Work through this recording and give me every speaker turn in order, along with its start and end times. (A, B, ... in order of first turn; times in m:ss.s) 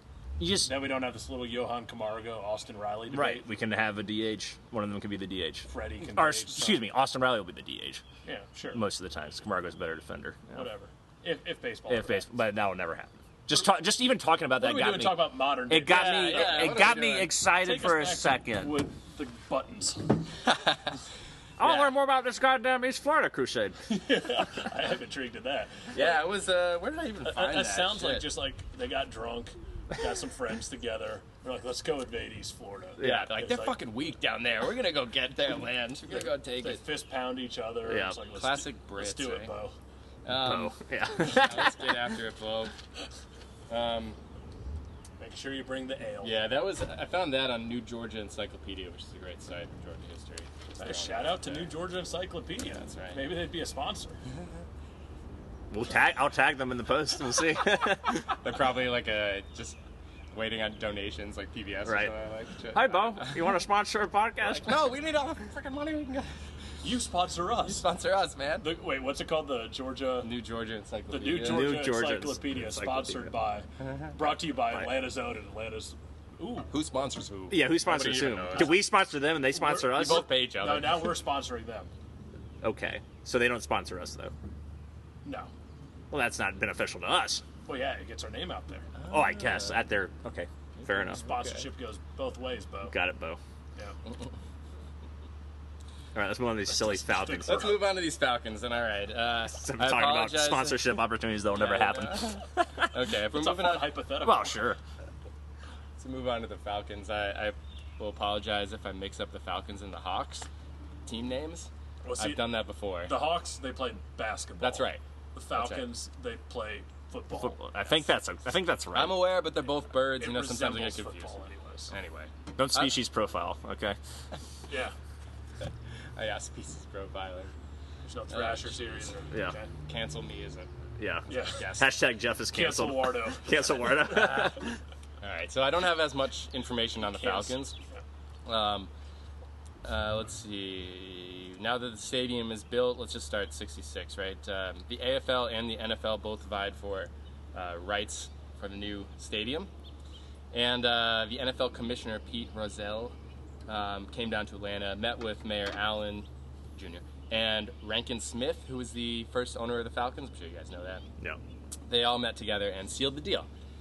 0:00.4-0:00.7 A
0:00.6-0:03.5 B
0:03.1-0:08.0 A
0:05.7-0:06.8 B
0:08.2-0:08.8 B
0:08.7-0:10.7 A
0:10.5-0:12.2 B
0:11.9-0:18.7 A
0:14.6-0:20.3 B
0:16.1-0:17.3 C
0:20.5-0:20.9 C
0:21.6-0:23.8 A
0:23.9-0:26.2 B
0:25.9-0:28.3 C
0:27.2-0:33.8 B
0:33.0-0:33.3 A
0:33.0-0:36.8 C
0:36.1-0:39.8 B
0:37.8-0:38.2 A
0:38.3-0:39.5 C
0:40.2-0:42.7 C
0:40.3-0:41.9 A
0:43.7-0:44.2 C
0:45.2-0:46.4 B
0:46.2-0:51.7 C
0:50.8-0:54.2 B
0:52.6-0:53.3 C
0:55.7-0:58.4 A
0:58.3-0:59.8 C
1:00.3-1:03.5 C
1:01.8-1:02.1 A
1:02.7-1:04.8 A
1:04.4-1:06.3 C
1:06.8-1:07.8 B
1:07.6-1:08.7 C
1:08.6-1:10.3 B
1:10.2-1:11.7 C
1:11.1-1:16.7 B
1:11.4-1:13.3 A
1:13.8-1:14.1 C
1:16.7-1:18.8 C
1:17.5-1:20.3 A
1:18.2-1:18.7 B
1:19.5-1:21.9 B
1:19.8-1:21.1 C
1:22.6-1:24.3 A
1:25.2-1:25.5 B
1:26.1-1:27.4 A
1:27.6-1:28.9 B
1:29.0-1:29.8 C
1:29.1-1:31.2 A
1:30.8-1:31.7 C
1:31.0-1:32.9 B
1:32.8-1:33.4 A
1:36.1-1:37.8 A
1:36.7-1:37.8 B
1:37.4-1:41.0 C
1:39.5-1:42.9 A
1:41.5-1:44.0 C
1:43.3-1:44.7 B
1:44.2-1:44.8 A
1:46.0-1:50.5 C
1:51.0-1:53.2 C
1:52.0-1:52.4 B
1:53.1-1:57.8 B
1:54.6-1:55.0 C
1:55.5-1:55.9 C
1:57.4-1:59.2 A
1:58.9-2:02.9 C
2:00.2-2:01.9 B
2:02.6-2:04.0 A
2:04.7-2:04.9 B
2:05.6-2:07.5 C
2:08.0-2:09.7 B
2:08.3-2:09.1 C
2:09.8-2:10.7 C
2:11.0-2:14.8 A
2:11.3-2:11.9 C
2:11.3-2:11.6 B
2:12.5-2:14.5 B
2:15.2-2:17.7 C
2:17.1-2:18.0 B
2:18.4-2:18.9 C
2:19.8-2:29.7 C
2:30.5-2:33.2 C
2:33.7-2:41.0 C
2:41.9-2:43.5 C